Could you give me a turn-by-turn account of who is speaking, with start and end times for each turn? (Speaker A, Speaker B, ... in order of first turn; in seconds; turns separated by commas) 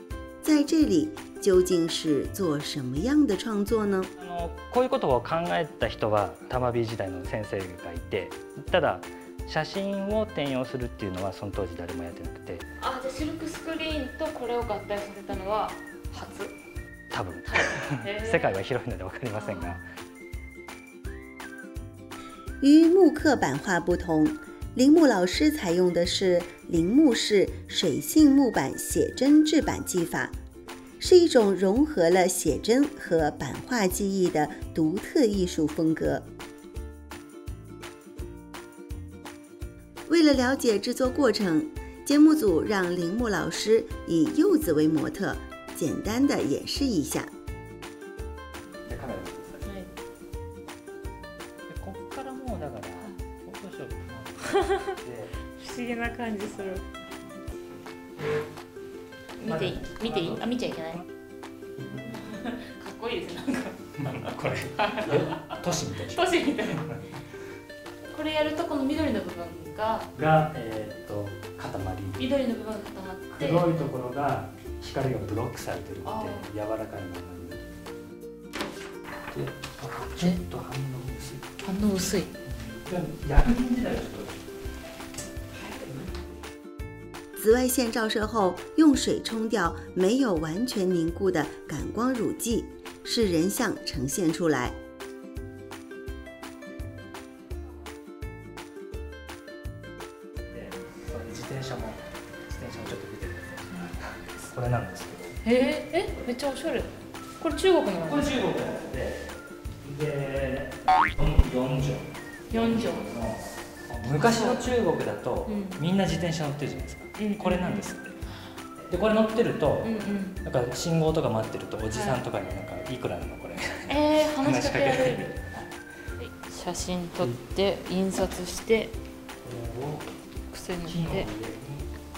Speaker A: 0.4-4.1, Speaker B: 4.2-12.7, Speaker C: 12.8-16.5, Speaker B: 17.1-19.8, Speaker C: 17.5-18.6, Speaker C: 19.3-19.8, Speaker A: 22.6-30.4, Speaker A: 31.0-36.3, Speaker A: 40.1-47.3, Speaker B: 48.9-49.6, Speaker C: 49.6-49.9, Speaker B: 51.7-55.3, Speaker C: 54.6-54.9, Speaker C: 55.6-56.9, Speaker C: 59.4-61.0, Speaker B: 59.5-60.4, Speaker C: 61.9-63.8, Speaker B: 64.0-66.3, Speaker C: 64.8-65.4, Speaker C: 66.1-66.9, Speaker C: 68.0-70.1, Speaker B: 70.1-72.2, Speaker C: 72.2-73.7, Speaker B: 73.4-77.6, Speaker C: 76.0-76.5, Speaker B: 79.3-81.5, Speaker C: 81.6-82.3, Speaker B: 82.5-84.4, Speaker A: 87.3-94.8, Speaker B: 100.5-105.4, Speaker C: 105.5-108.3, Speaker B: 108.0-109.2, Speaker B: 109.8-118.2, Speaker C: 112.5-113.1, Speaker C: 114.1-114.7, Speaker C: 115.5-115.8, Speaker C: 117.2-117.8, Speaker B: 118.8-125.5, Speaker C: 119.8-120.4, Speaker C: 121.9-122.2, Speaker C: 123.9-125.3, Speaker C: 126.2-128.9, Speaker B: 129.4-130.2, Speaker C: 130.5-131.3, Speaker B: 130.8-131.9